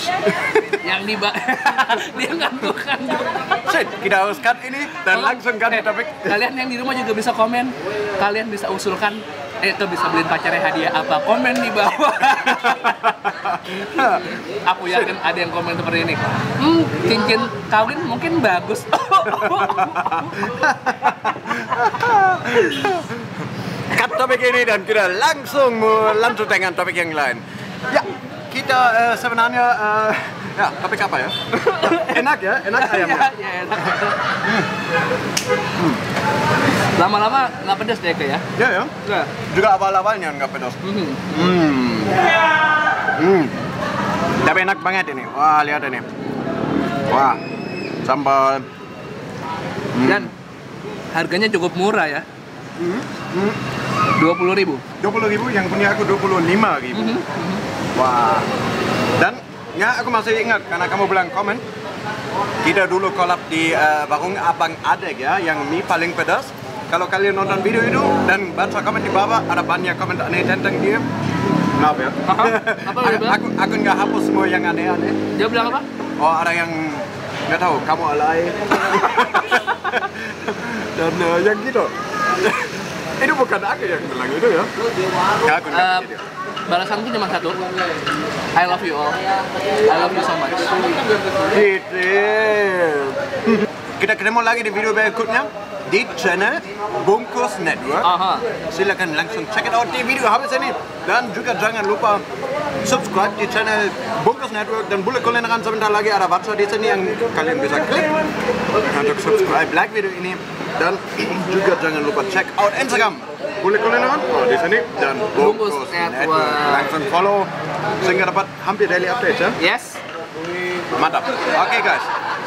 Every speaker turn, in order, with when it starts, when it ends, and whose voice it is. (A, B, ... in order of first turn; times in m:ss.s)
0:00.4-0:03.6 A
0:03.6-0:06.4 B
0:05.1-0:13.0 A
0:12.4-0:15.2 B
0:14.6-0:20.4 A
0:19.3-0:33.3 B
0:31.5-0:34.2 A
0:34.4-0:34.7 B
0:37.0-0:38.4 A
0:38.6-0:38.9 B
0:39.0-0:39.3 A
0:39.5-0:42.3 B
0:40.8-0:41.2 A
0:43.2-0:43.5 B
0:44.4-0:46.0 B
0:47.1-0:47.4 B
0:48.0-0:48.6 B
0:49.9-0:50.3 B
0:50.0-0:50.3 A
0:51.1-0:52.2 A
0:52.8-0:53.6 B
0:54.2-0:54.8 A
0:55.0-0:57.2 B
0:56.9-0:57.6 A
0:58.0-0:58.5 B
0:59.2-1:01.6 B
1:02.6-1:11.0 B
1:11.8-1:15.2 B
1:12.2-1:13.4 A
1:15.4-1:15.9 A
1:16.2-1:24.7 B
1:25.4-1:26.2 B
1:25.7-1:26.1 A
1:26.7-1:27.6 A
1:28.6-1:29.2 A
1:29.8-1:30.7 A
1:31.5-1:38.1 B
1:38.0-1:38.4 A
1:38.7-1:42.2 B
1:42.8-1:48.1 B
1:48.9-1:57.5 B
1:55.4-1:56.9 A
1:58.0-1:59.6 B
1:59.6-2:00.0 A
2:00.9-2:02.1 B